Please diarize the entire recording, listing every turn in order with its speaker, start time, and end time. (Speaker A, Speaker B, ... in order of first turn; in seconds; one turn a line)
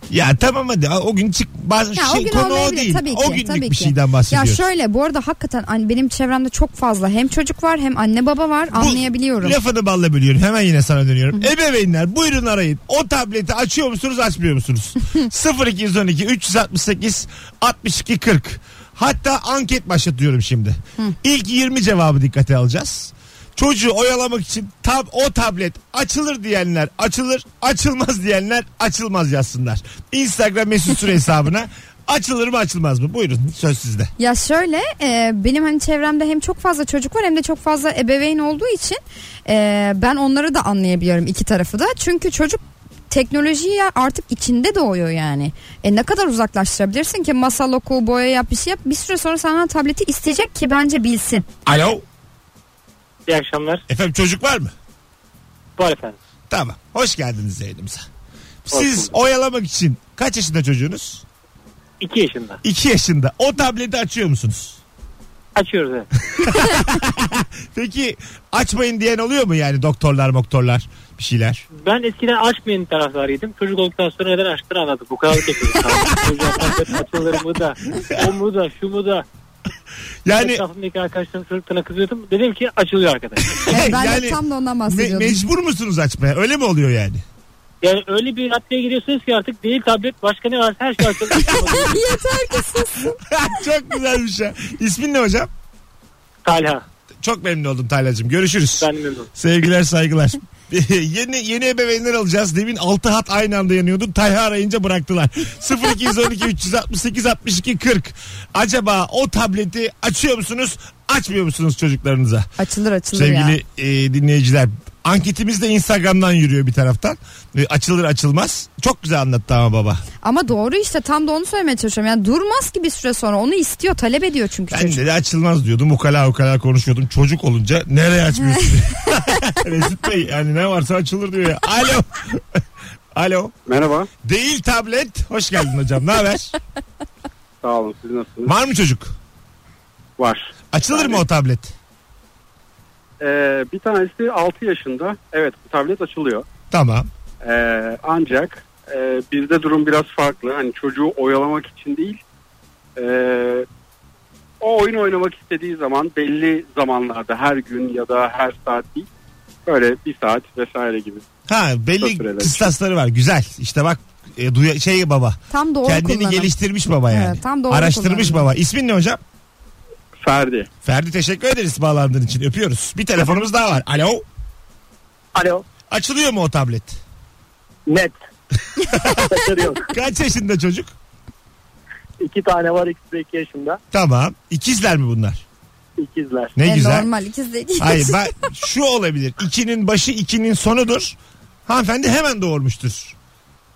Speaker A: 0.1-4.6
Speaker B: 1.9-9.6
Speaker A: 8.7-34.1
Speaker B: 34.2-51.5
Speaker A: 51.6-52.0
Speaker C: 53.3-53.8
Speaker A: 53.9-54.7
Speaker C: 55.8-56.1
Speaker A: 56.5-58.0
Speaker A: 58.7-61.2
Speaker C: 58.7-59.1
Speaker C: 62.0-62.6
Speaker A: 62.6-64.8
Speaker C: 65.5-66.1
Speaker A: 66.3-71.6
Speaker C: 71.8-79.2
Speaker A: 80.2-80.6
Speaker C: 80.3-83.7
Speaker A: 83.6-87.2
Speaker B: 83.7-85.4
Speaker C: 87.8-92.0
Speaker A: 91.3-91.9
Speaker B: 91.4-93.2
Speaker A: 93.2-95.5
Speaker C: 96.4-96.8
Speaker A: 97.2-112.5
Speaker C: 98.8-99.3
Speaker B: 112.6-113.6
Speaker A: 113.1-120.0
Speaker B: 120.2-125.0
Speaker A: 124.7-132.6
Speaker A: 133.1-133.5
Speaker D: 133.7-134.1
Speaker A: 134.2-136.5
Speaker D: 137.6-138.5
Speaker A: 138.4-139.1
Speaker D: 140.2-141.2
Speaker A: 140.7-141.7
Speaker D: 143.2-146.4
Speaker A: 146.7-147.1
Speaker D: 147.4-152.2
Speaker D: 152.9-153.7
Speaker D: 154.6-159.1
Speaker D: 159.7-161.2
Speaker A: 161.5-169.2
Speaker D: 162.0-162.7
Speaker B: 165.5-166.5
Speaker B: 167.1-168.4
Speaker D: 170.2-170.7
Speaker A: 170.8-174.2
Speaker E: 175.3-175.6
Speaker A: 175.9-177.0
Speaker E: 177.9-178.1
Speaker A: 178.9-180.9
Speaker E: 179.0-179.8
Speaker E: 182.2-183.8
Speaker A: 183.9-185.4
Speaker E: 186.0-186.6
Speaker A: 186.6-187.1
Speaker B: 186.6-188.2
Speaker A: 187.8-193.2